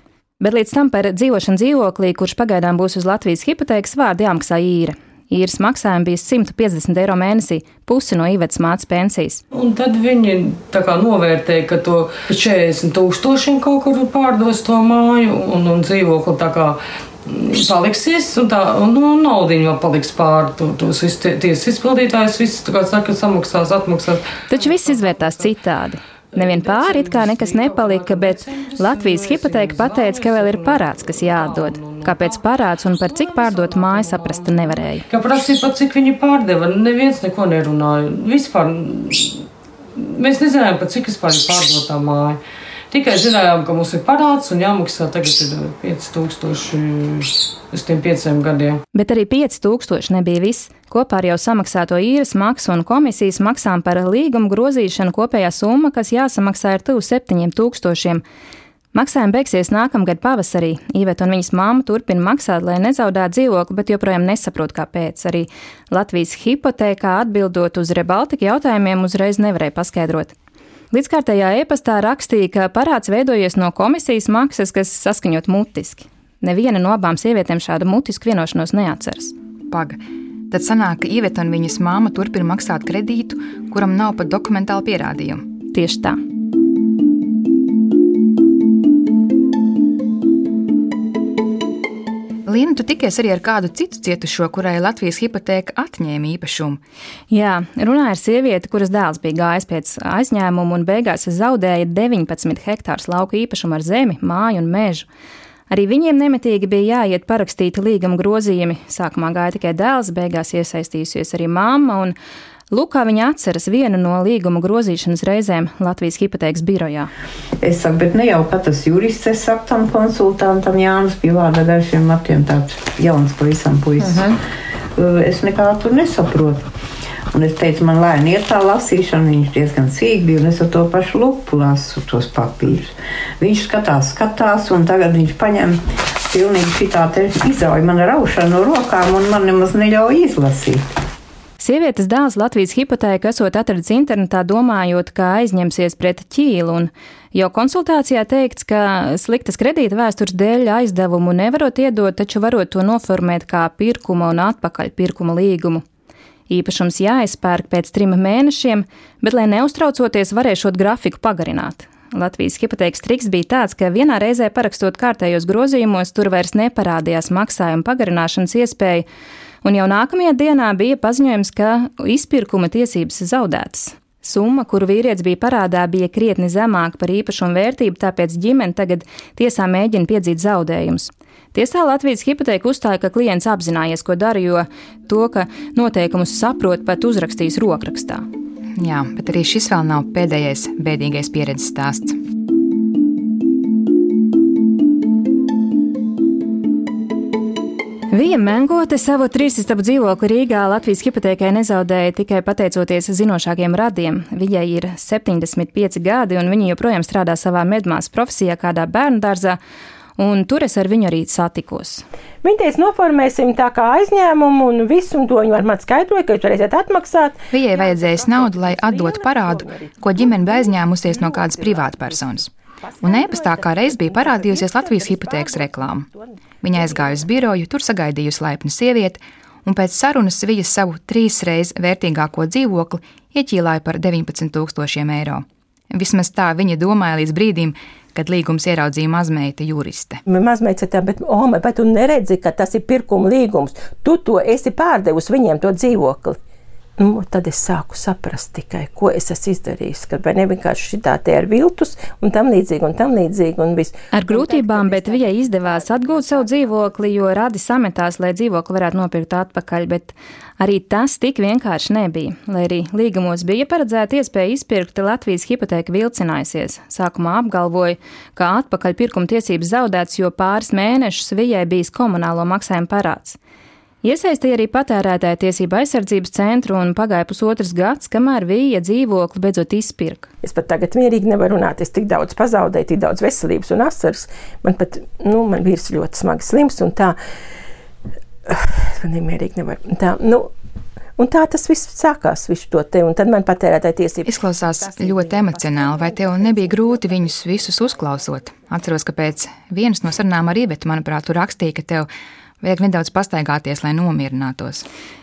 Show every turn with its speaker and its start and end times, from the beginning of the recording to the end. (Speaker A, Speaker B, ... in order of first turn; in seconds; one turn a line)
Speaker A: 0.4-9.4
Speaker B: 9.5-25.5
Speaker A: 24.5-35.0
Speaker B: 26.3-32.4
Speaker B: 33.0-39.4
Speaker B: 40.0-42.4
Speaker B: 42.9-48.8
Speaker A: 48.9-58.2
Speaker A: 58.9-70.3
Speaker A: 70.9-79.3
Speaker C: 79.7-80.0
Speaker C: 80.5-85.5
Speaker A: 85.7-86.2
Speaker C: 92.5-96.8
Speaker A: 97.3-105.1
Speaker A: 105.7-112.1
Speaker A: 112.7-117.1
Speaker D: 117.6-124.3
Speaker D: 125.0-126.6
Speaker D: 127.3-140.8
Speaker A: 141.6-155.8
Speaker A: 156.5-169.1
Speaker A: 169.6-188.2
Speaker C: 188.8-192.2
Speaker A: 198.1-209.6
Speaker A: 210.2-212.1
Speaker E: 212.4-227.2
Speaker C: 217.5-222.5
Speaker C: 223.0-226.1
Speaker C: 226.6-240.2
Speaker E: 240.3-246.4
Speaker E: 247.0-257.2
Speaker A: 254.1-273.4
Speaker A: 274.0-280.3
Speaker E: 280.4-287.2
Speaker E: 288.5-290.5
Speaker E: 291.2-298.2
Speaker C: 294.2-302.1
Speaker C: 302.6-304.9